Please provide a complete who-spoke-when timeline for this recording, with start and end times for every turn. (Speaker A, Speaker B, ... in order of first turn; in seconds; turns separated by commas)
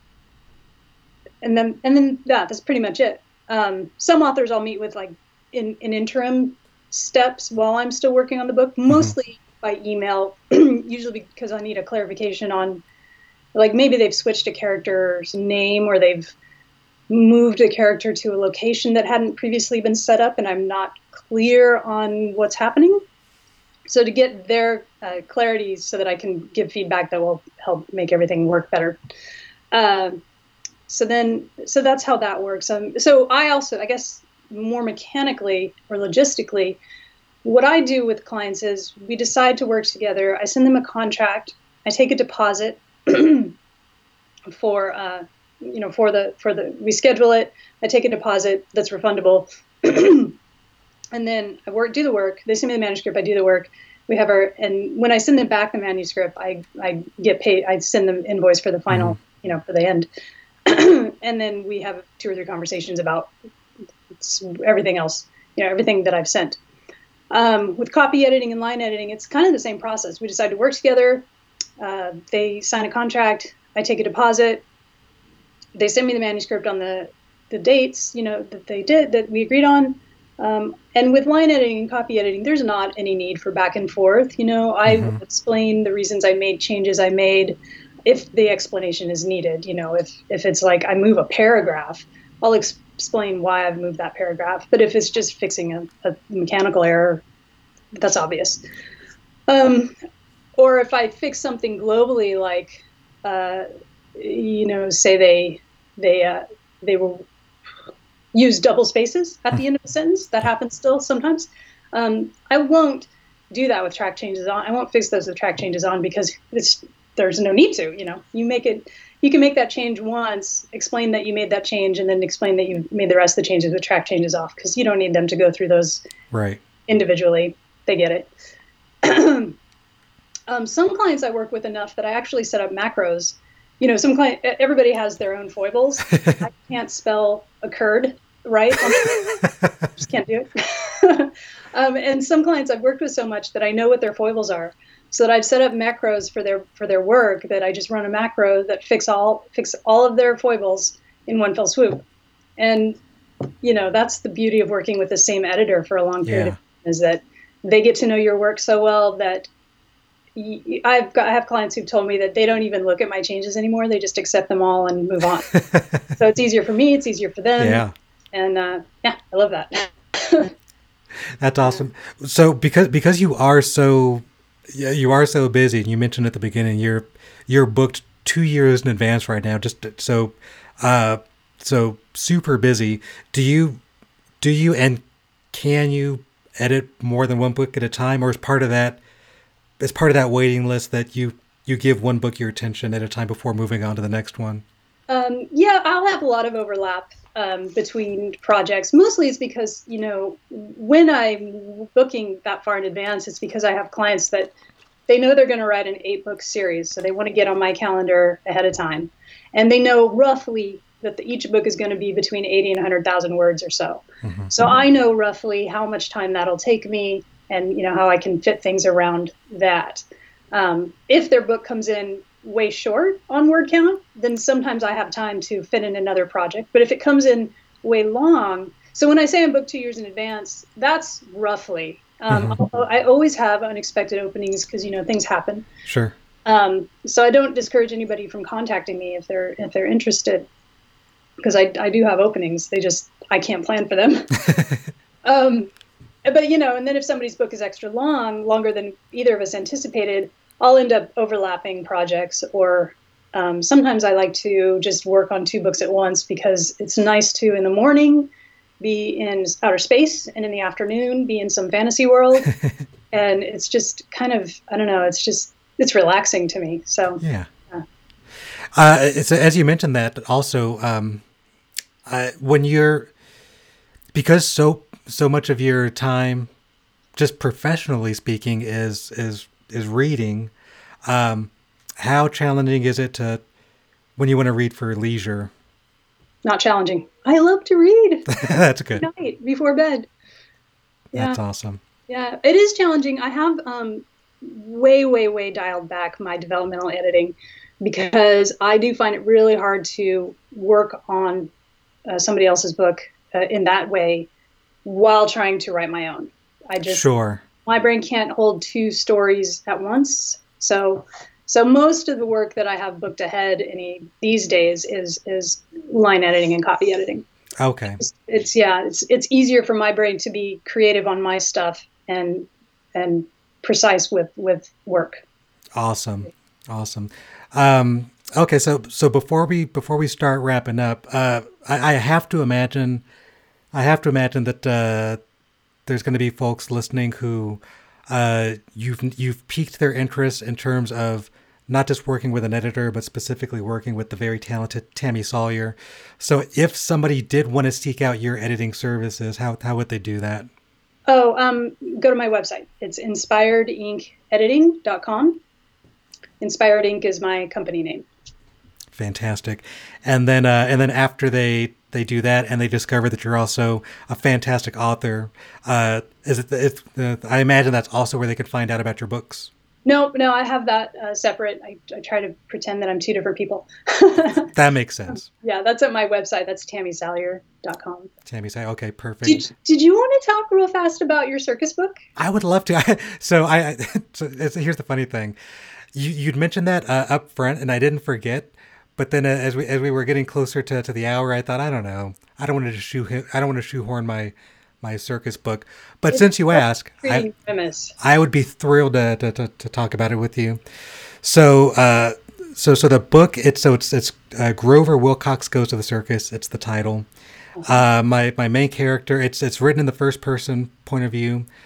Speaker A: 1.4-12.8, Speaker A: 13.5-16.3, Speaker A: 17.1-23.0, Speaker A: 23.9-29.0, Speaker A: 29.7-30.2, Speaker A: 30.9-36.8, Speaker A: 37.4-43.5, Speaker A: 44.5-50.4, Speaker A: 51.1-60.1, Speaker B: 58.9-59.1, Speaker A: 60.6-63.3, Speaker A: 64.2-66.6, Speaker A: 67.3-71.3, Speaker A: 71.8-74.6, Speaker A: 75.7-97.2, Speaker B: 84.9-85.2, Speaker A: 98.0-98.6, Speaker A: 99.5-99.9, Speaker A: 100.6-102.7, Speaker A: 103.2-107.2, Speaker A: 108.3-126.0, Speaker B: 126.3-126.6, Speaker A: 126.9-128.3, Speaker A: 129.0-129.6, Speaker A: 130.5-139.2, Speaker B: 136.1-136.4, Speaker B: 139.2-139.7, Speaker A: 139.9-152.0, Speaker A: 152.6-153.0, Speaker A: 153.6-159.5, Speaker B: 156.2-156.6, Speaker A: 160.3-165.6, Speaker B: 165.5-166.0, Speaker A: 166.1-170.5, Speaker B: 167.6-167.9, Speaker B: 171.4-183.8, Speaker B: 184.4-189.0, Speaker B: 189.8-194.6, Speaker A: 195.1-204.5, Speaker A: 205.1-235.7, Speaker B: 214.2-214.5, Speaker B: 232.3-232.6, Speaker B: 235.8-236.1, Speaker A: 236.4-240.4, Speaker A: 241.4-244.4, Speaker B: 244.4-244.8, Speaker A: 245.2-245.7, Speaker A: 246.2-258.3, Speaker A: 258.8-262.5, Speaker A: 263.1-267.8, Speaker B: 267.2-267.5, Speaker B: 268.7-271.2, Speaker B: 272.1-273.1, Speaker B: 274.1-276.5, Speaker B: 277.1-280.5, Speaker B: 281.1-283.4, Speaker B: 284.2-285.5, Speaker A: 286.4-288.4, Speaker B: 288.3-289.1, Speaker A: 288.9-290.1, Speaker B: 291.1-291.8, Speaker A: 292.1-301.5, Speaker A: 302.1-304.3, Speaker A: 304.8-307.0, Speaker B: 306.8-307.4, Speaker A: 307.6-317.2, Speaker B: 317.6-318.0, Speaker A: 318.0-325.2, Speaker B: 325.7-333.0, Speaker B: 333.7-335.2, Speaker B: 335.9-350.5, Speaker A: 351.1-355.4, Speaker A: 356.4-358.1, Speaker B: 358.9-369.5, Speaker A: 369.8-374.5, Speaker B: 374.4-375.3, Speaker A: 375.3-378.1, Speaker B: 378.2-379.5, Speaker A: 379.2-381.9, Speaker B: 382.2-385.4, Speaker B: 385.9-397.3, Speaker A: 396.1-397.9, Speaker B: 398.0-400.6, Speaker B: 401.2-407.1, Speaker B: 407.6-411.4